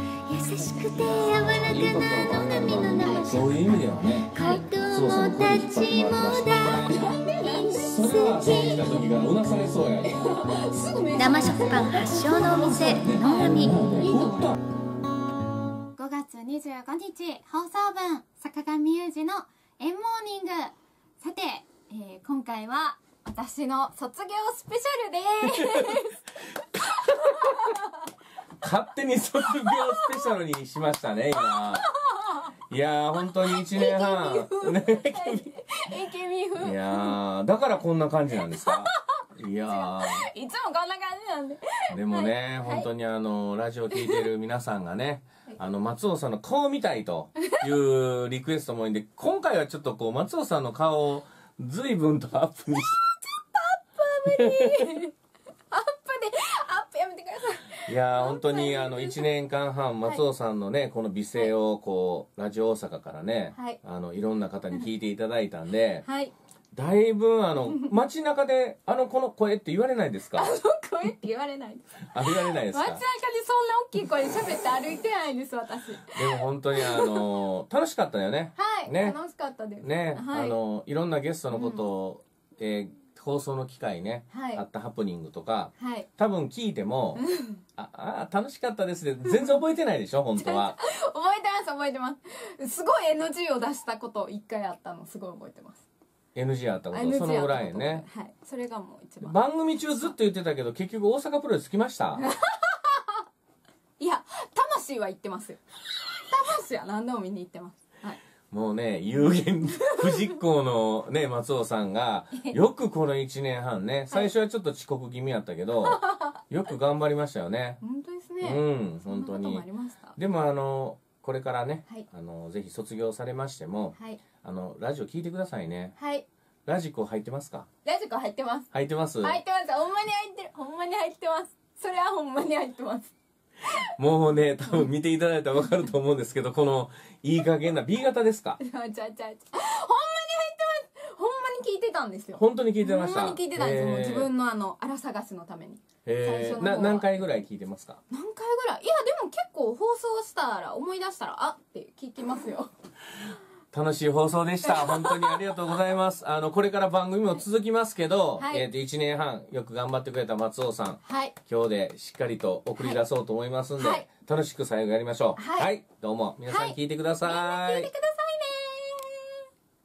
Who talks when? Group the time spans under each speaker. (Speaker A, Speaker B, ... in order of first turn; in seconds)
Speaker A: 0.3-8.9, 11.2-13.8
Speaker B: 0.9-4.4, 4.9-7.1, 7.9-10.2, 13.0-14.6, 25.5-26.1, 26.8-27.7, 28.6-31.9, 32.7-35.5, 36.6-40.3, 41.9-53.0, 54.3-55.0, 57.9-66.0, 66.7-70.5, 72.1-73.0, 76.1-79.2, 79.8-87.2, 87.8-90.8, 96.3-98.0, 99.2-102.2, 108.5-117.8, 118.4-126.0, 126.7-127.7, 128.7-129.4, 134.0-138.6, 142.3-144.3, 146.1-148.0, 153.7-167.9
Speaker C: 3.0-3.4, 6.6-9.0, 10.0-14.5, 16.0-27.9, 29.6-30.3, 31.4-32.5, 33.2-37.2, 38.4-39.1, 39.7-42.9, 43.9-44.3, 47.4-47.6, 53.0-55.1, 55.7-59.3, 63.5-63.8, 66.0-66.3, 67.7-67.9, 70.3-77.2, 78.6-80.6, 81.5-81.9, 84.3-84.7, 85.8-86.1, 87.2-87.6, 89.3-89.6, 90.4-95.8, 96.9-99.4, 102.2-103.2, 104.0-105.6, 106.2-108.2, 109.8-110.4, 115.8-116.3, 117.8-120.2, 124.0-124.2, 126.0-126.3, 127.8-128.7, 129.2-133.1, 134.7-134.9, 138.6-147.2, 148.1-152.7, 154.7-155.5, 158.4-158.7, 161.0-161.3, 163.8-164.1, 165.4-165.7, 166.5-169.4